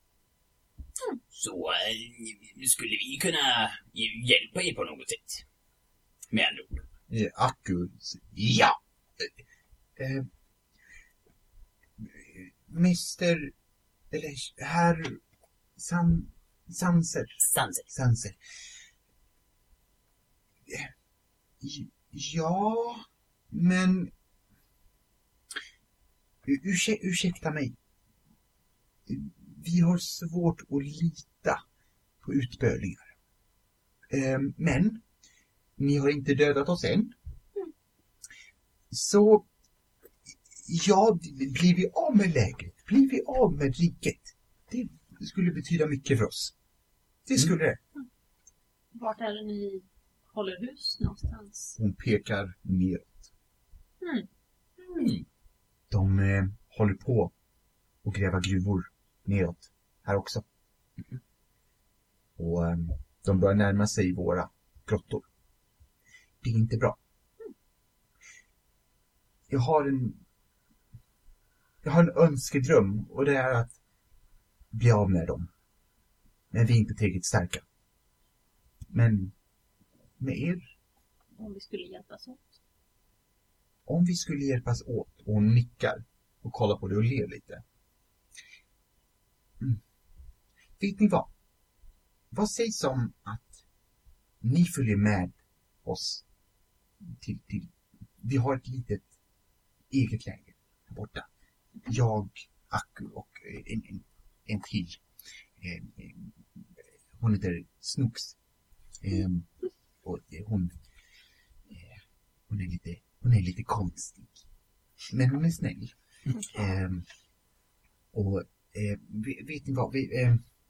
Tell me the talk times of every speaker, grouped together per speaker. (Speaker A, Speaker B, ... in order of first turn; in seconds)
Speaker A: 1.3-5.4, 6.3-6.8, 17.5-17.9, 54.9-55.2
Speaker B: 7.1-9.3, 10.0-10.3, 12.0-13.5, 14.1-15.2, 15.8-18.4, 20.7-20.9, 21.6-24.1, 26.4-27.8, 29.1-31.6, 32.2-33.1, 34.1-35.0, 35.8-37.1, 38.9-39.5, 40.6-46.5, 47.3-47.8, 51.8-53.3, 55.9-57.3, 58.0-60.4, 62.4-65.3, 66.4-67.0, 69.5-70.2, 71.8-73.8, 74.7-75.5, 76.5-77.6, 78.9-79.3, 80.2-80.7, 83.8-87.6, 90.8-91.3, 92.3-93.6, 94.4-96.2, 97.0-99.1, 99.9-101.3, 101.9-105.0, 105.6-106.7, 107.2-108.3, 109.0-109.5, 110.0-110.8, 111.7-114.3, 115.1-115.9, 116.4-117.0, 118.1-120.4
Speaker C: 48.9-51.8, 54.0-54.3, 81.4-82.5